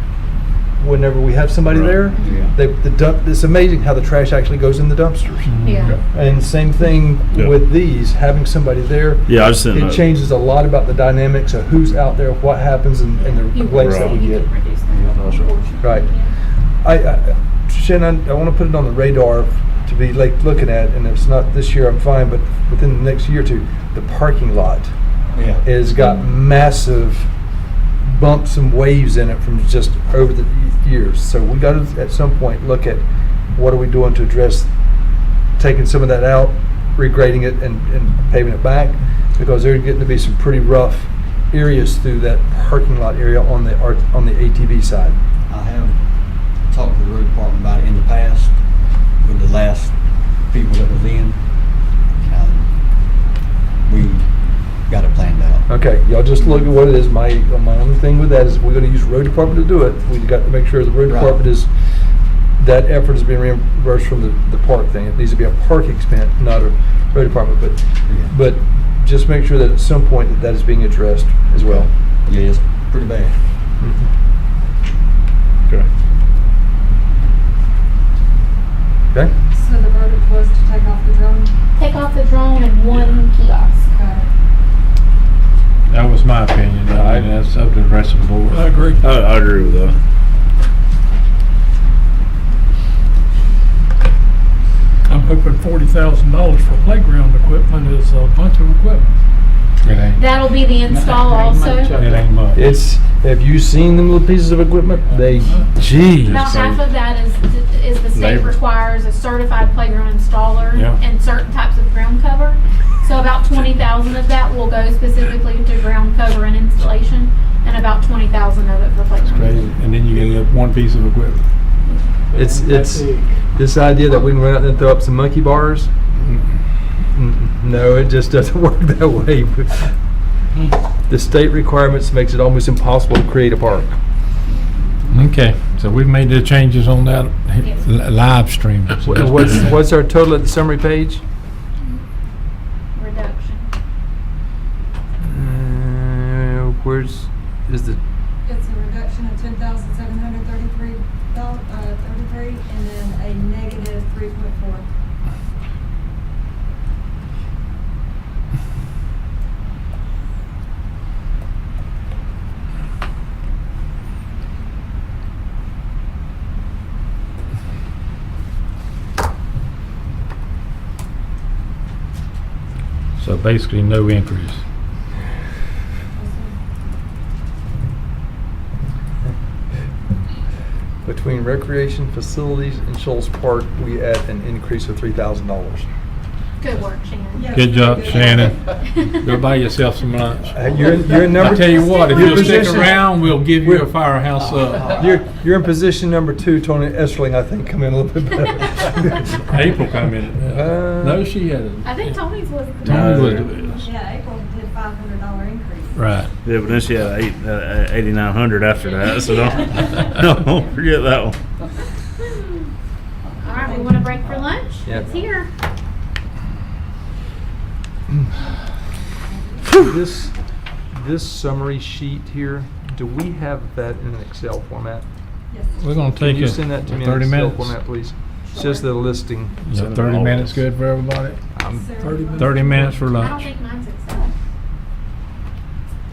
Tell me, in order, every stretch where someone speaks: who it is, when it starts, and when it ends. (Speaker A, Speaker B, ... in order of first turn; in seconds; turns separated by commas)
Speaker A: 0.8-14.4, Speaker B: 1.7-2.0, Speaker C: 2.2-2.5, Speaker D: 5.5-5.9, Speaker E: 5.6-6.0, Speaker B: 9.3-10.0, Speaker E: 13.2-16.3, Speaker B: 13.8-14.2, Speaker B: 15.1-15.5, Speaker A: 15.8-16.1, Speaker A: 16.8-24.9, Speaker C: 25.3-25.6, Speaker A: 25.5-27.3, Speaker A: 28.0-34.7, Speaker A: 35.6-45.2, Speaker C: 45.5-46.0, Speaker C: 46.7-48.6, Speaker C: 49.2-51.5, Speaker C: 52.2-52.7, Speaker C: 53.8-54.3, Speaker C: 54.8-55.6, Speaker A: 55.7-61.7, Speaker C: 61.0-61.4, Speaker A: 62.6-71.9, Speaker C: 68.1-68.3, Speaker C: 71.6-73.3, Speaker A: 73.8-74.1, Speaker F: 79.5-81.5, Speaker E: 81.8-83.8, Speaker B: 82.9-83.2, Speaker F: 83.9-84.3, Speaker D: 85.9-88.7, Speaker A: 86.9-87.3, Speaker G: 88.5-89.0, Speaker B: 89.0-90.0, Speaker G: 95.1-99.1, Speaker D: 99.8-100.2, Speaker E: 100.2-102.0, Speaker G: 101.5-102.2, Speaker D: 101.9-102.6, Speaker A: 102.5-106.4, Speaker E: 106.2-119.7, Speaker D: 106.3-106.8, Speaker B: 108.1-108.5, Speaker D: 119.3-121.5, Speaker E: 121.8-122.1, Speaker A: 122.3-125.9, Speaker D: 122.3-123.2, Speaker A: 127.1-129.9, Speaker A: 131.1-134.0, Speaker D: 135.1-139.7, Speaker E: 137.6-137.8, Speaker A: 139.0-141.2, Speaker E: 142.9-143.7, Speaker A: 145.2-148.0, Speaker F: 148.4-154.9, Speaker D: 173.2-174.6, Speaker F: 176.2-176.6, Speaker A: 181.0-185.9, Speaker E: 186.6-188.2, Speaker F: 187.3-188.5, Speaker D: 187.5-195.0, Speaker E: 188.8-189.3, Speaker A: 190.5-193.9, Speaker E: 191.7-192.9, Speaker C: 194.4-195.0, Speaker A: 194.9-199.3, Speaker D: 199.5-202.1, Speaker A: 200.5-201.2, Speaker E: 201.8-203.3, Speaker D: 202.8-203.5, Speaker B: 202.8-203.5, Speaker F: 203.3-206.0, Speaker D: 205.9-206.3, Speaker B: 206.4-211.4, Speaker E: 213.4-215.5, Speaker F: 213.5-214.4, Speaker A: 214.8-215.2, Speaker F: 219.0-219.7, Speaker A: 219.8-220.3, Speaker A: 220.9-225.0, Speaker F: 225.5-226.2, Speaker D: 225.8-227.8, Speaker A: 226.2-229.6, Speaker F: 228.5-228.8, Speaker D: 229.7-231.4, Speaker B: 229.7-230.6, Speaker A: 231.5-231.9, Speaker F: 231.7-232.9, Speaker G: 232.0-233.1, Speaker D: 232.3-233.4, Speaker E: 233.1-234.3